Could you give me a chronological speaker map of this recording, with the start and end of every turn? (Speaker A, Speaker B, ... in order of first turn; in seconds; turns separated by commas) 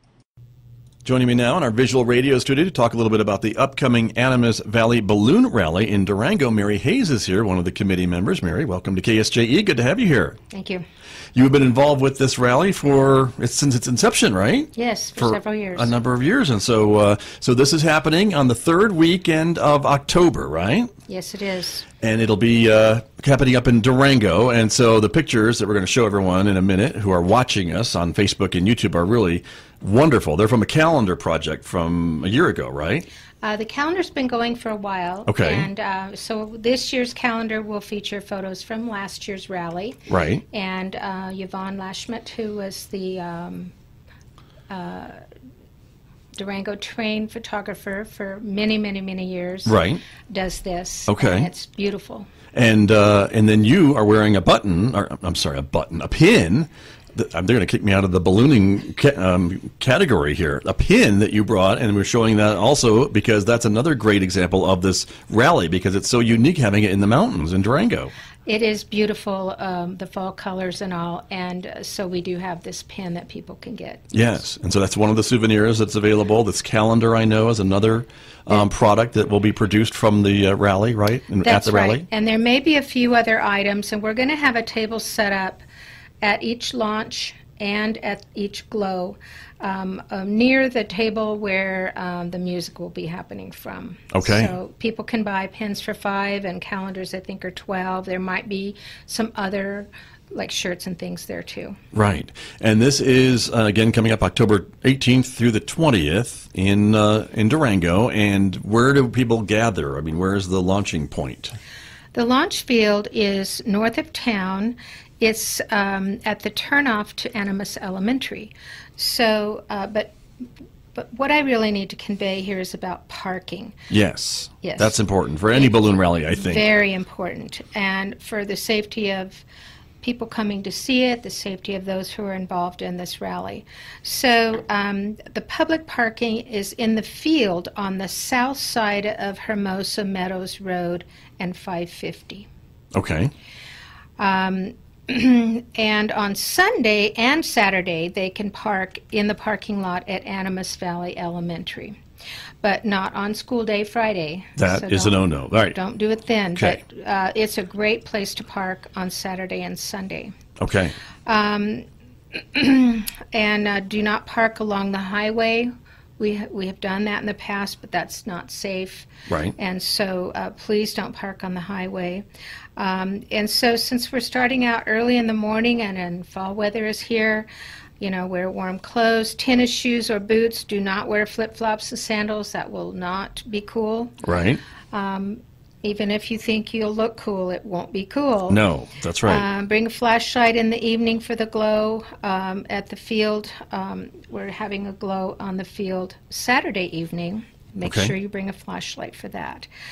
Speaker A: 1.1-10.4, Speaker B: 10.5-10.8, Speaker A: 11.3-20.9, Speaker B: 14.8-15.9, Speaker B: 21.1-21.9, Speaker A: 22.0-33.1, Speaker B: 33.4-40.0, Speaker A: 35.3-35.7, Speaker A: 40.1-40.4, Speaker B: 40.5-43.7, Speaker B: 44.7-45.2, Speaker B: 46.4-52.3, Speaker A: 49.7-50.0, Speaker A: 51.1-51.5, Speaker A: 52.5-68.1, Speaker B: 68.5-74.1, Speaker A: 74.1-82.1, Speaker B: 81.4-85.6, Speaker B: 86.2-101.8, Speaker A: 94.1-94.5, Speaker A: 101.9-111.5, Speaker B: 112.1-120.2, Speaker B: 120.9-123.8, Speaker A: 123.9-126.7, Speaker B: 124.6-125.0, Speaker B: 125.5-129.4, Speaker B: 130.0-142.5, Speaker A: 142.9-143.3, Speaker B: 144.2-152.0, Speaker B: 152.6-160.3, Speaker A: 154.6-155.8, Speaker A: 160.6-161.0, Speaker B: 161.3-172.2, Speaker A: 169.3-169.6, Speaker B: 172.8-177.5, Speaker B: 178.0-184.1, Speaker A: 184.2-184.6, Speaker B: 184.9-188.6, Speaker A: 188.5-189.5, Speaker B: 189.2-199.7, Speaker A: 197.8-198.1